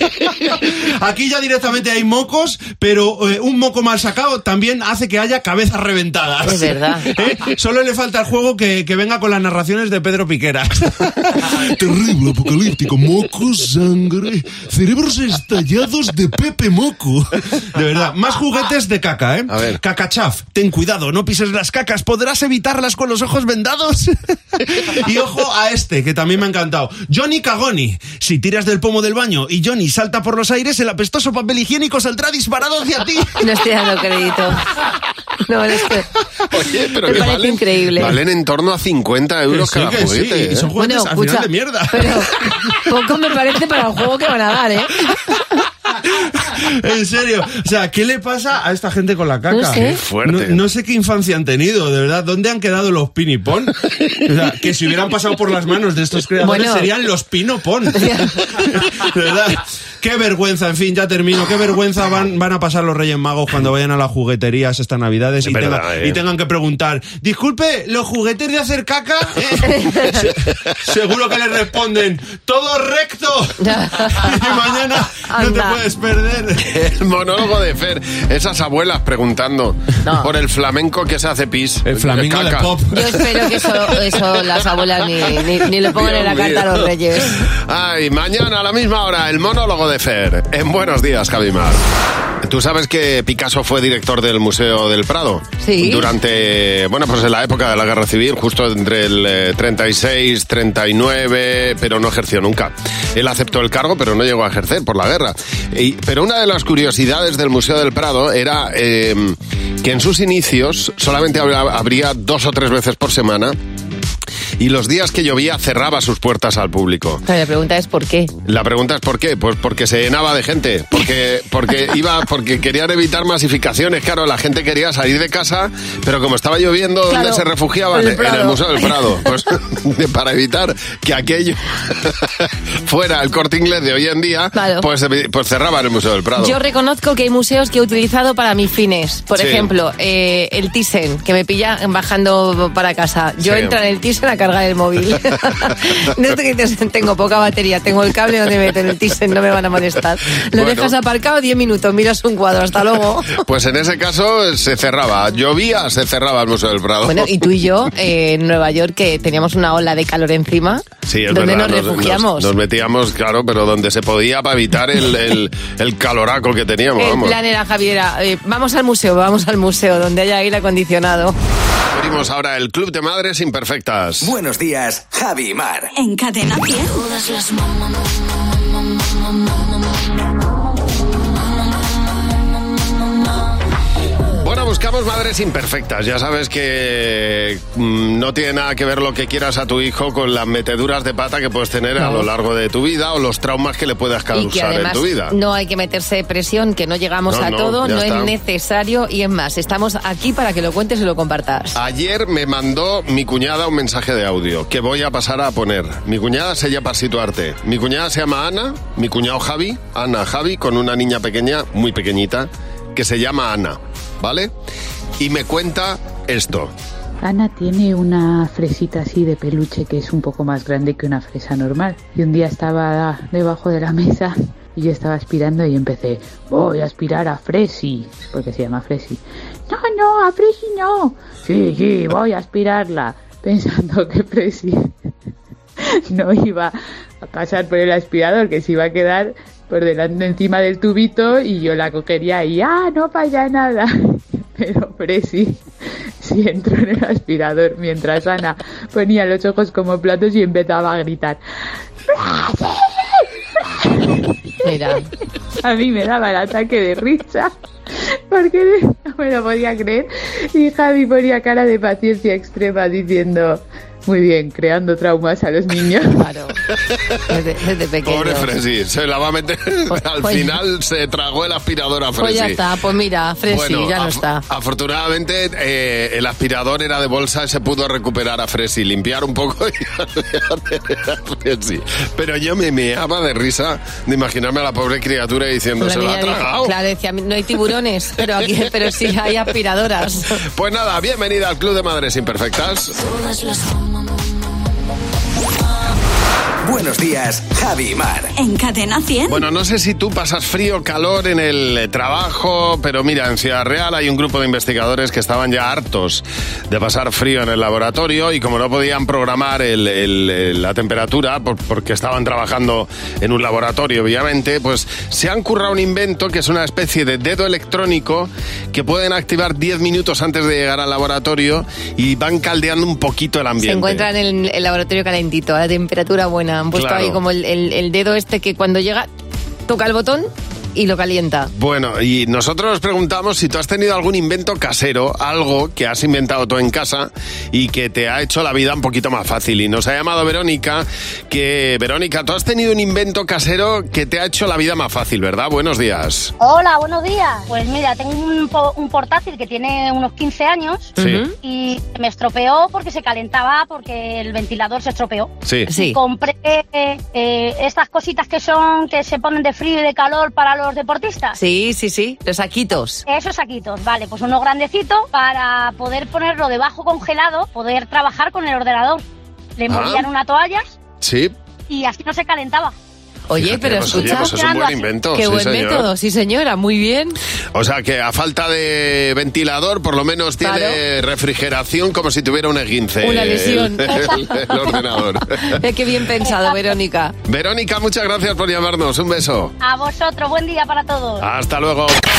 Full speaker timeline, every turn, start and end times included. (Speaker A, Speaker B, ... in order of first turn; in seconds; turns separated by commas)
Speaker A: 0.2-33.4, Speaker B: 6.4-7.1, Speaker C: 19.5-19.8, Speaker B: 33.4-34.6, Speaker B: 35.5-36.1, Speaker C: 36.5-40.7, Speaker B: 37.0-38.2, Speaker A: 39.5-42.3, Speaker B: 40.8-44.9, Speaker A: 46.3-76.6, Speaker B: 49.5-50.0, Speaker C: 49.9-50.6, Speaker B: 56.4-56.9, Speaker B: 57.9-58.4, Speaker C: 65.4-66.2, Speaker B: 69.6-70.3, Speaker B: 73.6-74.5, Speaker B: 75.3-75.8, Speaker C: 76.6-82.7, Speaker B: 80.0-80.3, Speaker A: 81.8-83.6, Speaker B: 82.9-87.4, Speaker C: 86.0-86.8, Speaker C: 87.7-91.8, Speaker C: 92.4-113.5, Speaker B: 95.6-96.1, Speaker C: 114.6-117.2, Speaker B: 117.3-118.3, Speaker C: 118.4-136.6, Speaker B: 127.1-129.0, Speaker B: 134.5-134.8, Speaker B: 136.4-153.4, Speaker C: 139.3-139.7, Speaker C: 143.4-143.8, Speaker C: 150.5-150.9, Speaker C: 153.3-157.3, Speaker B: 157.0-162.5, Speaker C: 161.1-167.4, Speaker B: 167.0-171.3, Speaker C: 171.9-174.3, Speaker D: 174.2-175.9, Speaker E: 175.9-177.1, Speaker C: 184.3-195.3, Speaker B: 192.0-192.2, Speaker B: 194.3-201.8, Speaker C: 197.3-198.3, Speaker C: 201.7-214.5, Speaker C: 215.2-216.7, Speaker F: 217.2-234.9, Speaker F: 236.1-245.6, Speaker F: 246.2-251.4, Speaker F: 252.1-253.0, Speaker B: 254.6-255.1, Speaker F: 255.6-257.5, Speaker F: 258.3-266.1, Speaker B: 266.1-266.5, Speaker B: 267.3-268.5, Speaker C: 268.0-272.6, Speaker B: 269.9-270.6, Speaker B: 272.2-274.4, Speaker C: 273.5-286.7, Speaker B: 285.8-290.3, Speaker C: 290.5-293.0, Speaker D: 296.6-298.3, Speaker E: 298.4-299.4, Speaker C: 299.3-324.1, Speaker B: 323.6-329.1, Speaker C: 326.7-327.2, Speaker B: 329.7-331.5, Speaker C: 331.5-346.3, Speaker G: 346.4-355.3, Speaker C: 351.0-351.2, Speaker B: 351.0-351.3, Speaker C: 355.4-355.7, Speaker B: 355.7-356.0, Speaker G: 355.8-361.3, Speaker B: 361.4-363.0, Speaker G: 363.1-369.0, Speaker G: 369.6-370.8, Speaker C: 369.7-370.0, Speaker C: 371.0-371.3, Speaker G: 371.7-372.7, Speaker B: 373.3-374.4, Speaker C: 373.4-375.9, Speaker G: 374.3-374.9, Speaker B: 375.1-377.1, Speaker C: 377.5-385.5, Speaker B: 380.4-380.8, Speaker B: 383.0-384.8, Speaker G: 383.9-384.1, Speaker B: 385.5-387.1, Speaker C: 387.2-389.5, Speaker G: 389.6-391.2, Speaker C: 391.2-392.0